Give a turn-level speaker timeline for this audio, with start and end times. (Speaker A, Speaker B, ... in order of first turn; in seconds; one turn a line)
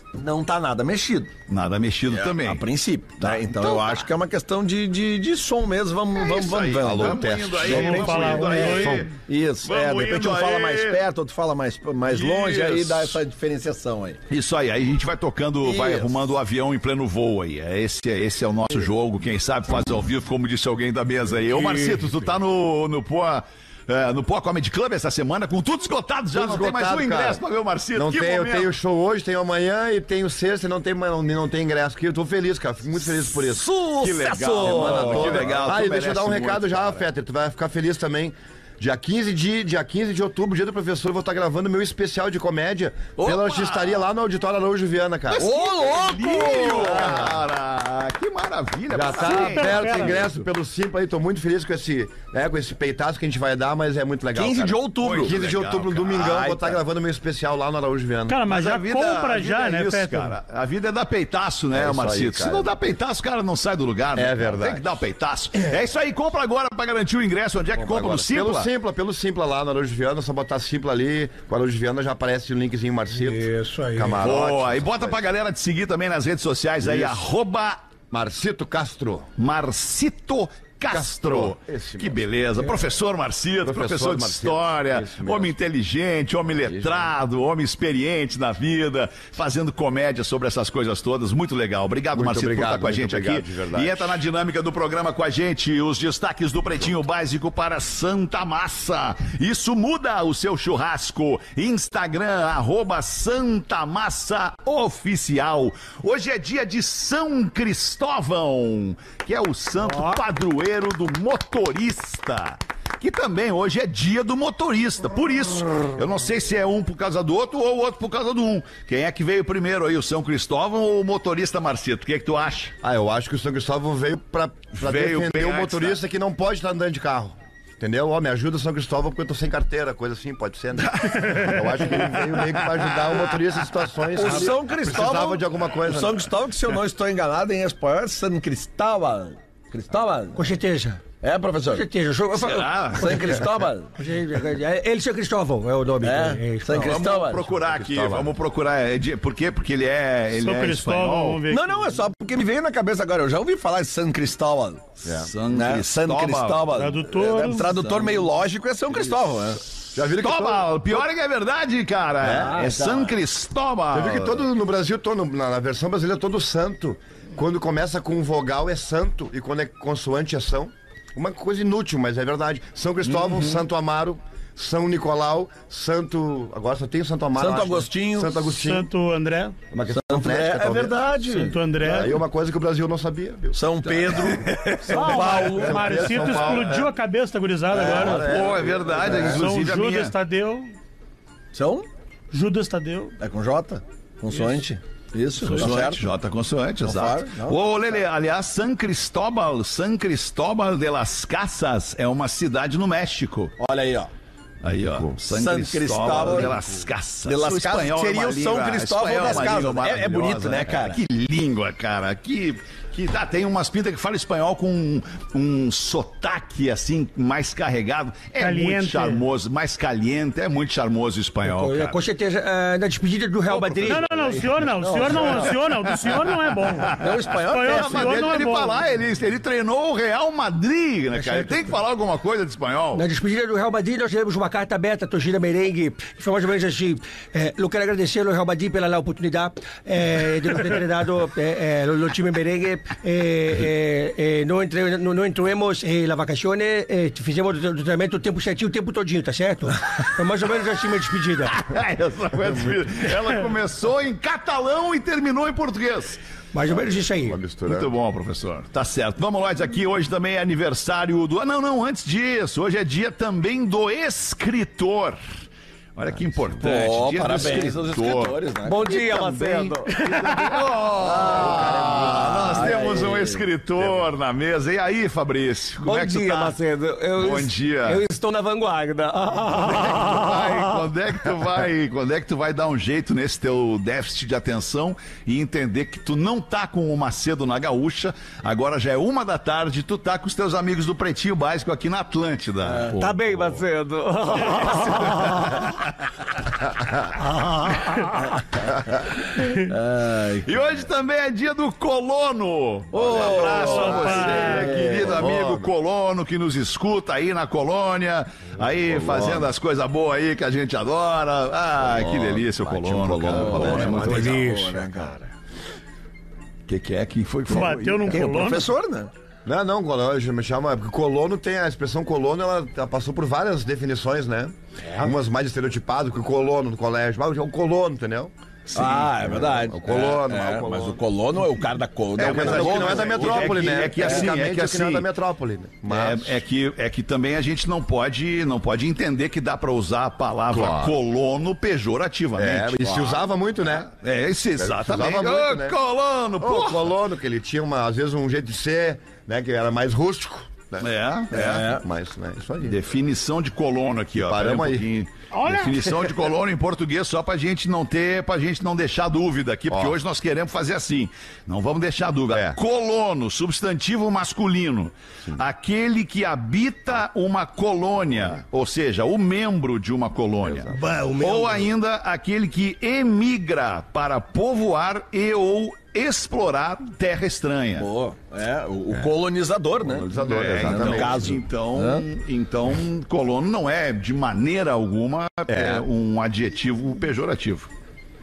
Speaker A: 0.1-1.3
Speaker B: 1.5-2.6
Speaker A: 2.1-14.2
Speaker B: 3.2-4.1
Speaker B: 6.1-11.0
Speaker C: 6.8-9.1
Speaker D: 7.6-9.0
Speaker B: 12.1-13.2
Speaker B: 14.3-28.7
Speaker A: 15.6-16.2
Speaker E: 21.4-22.1
Speaker C: 26.3-27.4
Speaker C: 27.9-33.6
Speaker A: 33.4-35.7
Speaker B: 34.0-37.0
Speaker C: 34.6-45.5
Speaker A: 43.2-43.6
Speaker B: 43.3-43.9
Speaker B: 45.3-50.4
Speaker A: 45.3-47.3
Speaker C: 46.7-47.4
Speaker C: 48.9-58.4
Speaker D: 49.2-50.2
Speaker A: 54.3-55.3
Speaker B: 55.0-56.8
Speaker D: 58.3-60.4
Speaker B: 58.5-68.7
Speaker C: 61.7-62.7
Speaker C: 64.1-64.8
Speaker C: 67.7-75.2
Speaker E: 73.1-74.2
Speaker B: 74.2-77.8
Speaker C: 76.8-77.1
Speaker C: 78.1-79.3
Speaker B: 79.4-122.7
Speaker C: 80.9-82.2
Speaker C: 83.6-85.5
Speaker C: 86.6-87.1
Speaker C: 92.1-94.2
Speaker E: 109.8-110.2
Speaker C: 122.8-136.3
Speaker B: 124.8-126.0
Speaker B: 131.0-133.3
Speaker A: 134.1-140.5
Speaker E: 140.3-141.0
Speaker A: 141.2-141.9
Speaker E: 141.6-143.2
Speaker B: 142.4-143.5
Speaker A: 142.4-143.9
Speaker E: 144.0-147.1
Speaker A: 146.0-147.4
Speaker B: 146.7-151.4
Speaker C: 147.7-148.3
Speaker D: 150.3-152.0
Speaker A: 151.5-154.9
Speaker B: 155.0-156.8
Speaker C: 155.0-155.3
Speaker A: 155.5-159.6
Speaker D: 156.8-157.9
Speaker C: 159.9-160.8
Speaker B: 159.9-164.4
Speaker C: 162.2-162.6
Speaker A: 162.2-163.2
Speaker C: 163.9-178.9
Speaker B: 173.0-173.6
Speaker A: 177.4-178.4
Speaker D: 178.4-179.5
Speaker C: 179.7-181.1
Speaker A: 179.9-181.6
Speaker D: 181.2-182.2
Speaker C: 181.8-184.4
Speaker A: 183.5-186.3
Speaker E: 184.5-185.4
Speaker D: 184.9-188.3
Speaker C: 185.2-186.8
Speaker B: 186.2-186.9
Speaker A: 187.7-189.4
Speaker C: 187.7-189.4
Speaker B: 187.9-190.1
Speaker D: 189.1-190.7
Speaker A: 191.5-191.9
Speaker D: 192.3-193.2
Speaker A: 193.2-196.1
Speaker B: 195.4-203.6
Speaker A: 196.8-197.6
Speaker A: 203.6-204.1
Speaker B: 204.6-222.0
Speaker A: 205.3-206.6
Speaker A: 207.2-211.0
Speaker D: 218.4-219.2
Speaker E: 221.4-225.2
Speaker B: 223.5-224.0
Speaker D: 223.9-228.8
Speaker A: 224.8-225.5
Speaker B: 225.2-226.2
Speaker B: 226.8-233.0
Speaker A: 226.9-228.5
Speaker E: 231.1-231.7
Speaker E: 232.9-251.6
Speaker B: 251.4-256.2
Speaker E: 256.5-257.4
Speaker C: 256.8-257.9
Speaker B: 257.6-265.2
Speaker B: 265.9-268.4
Speaker A: 266.6-269.5
Speaker E: 268.6-270.6
Speaker B: 269.1-276.6
Speaker A: 271.0-274.0
Speaker C: 271.2-272.5
Speaker E: 275.8-280.8
Speaker B: 277.1-278.0
Speaker B: 279.6-293.6
Speaker A: 292.6-293.0
Speaker E: 292.9-295.7
Speaker B: 294.4-295.9
Speaker E: 297.2-298.3
Speaker D: 299.4-299.6
Speaker A: 299.6-300.5
Speaker B: 300.4-314.4
Speaker A: 302.9-305.2
Speaker D: 303.4-304.8
Speaker C: 304.9-305.7
Speaker C: 308.9-309.4
Speaker A: 309.1-309.4
Speaker C: 311.8-314.3
Speaker A: 313.3-315.3
Speaker E: 313.6-314.8
Speaker B: 316.7-318.2
Speaker D: 317.5-318.7
Speaker A: 317.6-319.1
Speaker C: 319.4-328.3
Speaker A: 328.7-334.3
Speaker C: 328.8-331.0
Speaker B: 332.1-335.1
Speaker C: 332.2-336.4
Speaker B: 335.9-342.9
Speaker C: 340.5-341.0
Speaker C: 342.4-343.9
Speaker A: 342.8-343.1
Speaker B: 343.9-346.9
Speaker C: 344.6-345.8
Speaker C: 346.4-350.9
Speaker B: 350.8-351.8
Speaker A: 351.3-351.8
Speaker C: 351.6-352.8
Speaker B: 352.6-377.9
Speaker C: 354.2-354.9
Speaker D: 355.3-356.1
Speaker C: 359.7-360.0
Speaker C: 362.3-362.6
Speaker C: 370.4-370.7
Speaker E: 370.7-371.7
Speaker A: 377.8-382.0
Speaker C: 379.8-381.4
Speaker B: 380.2-387.7
Speaker C: 385.5-385.8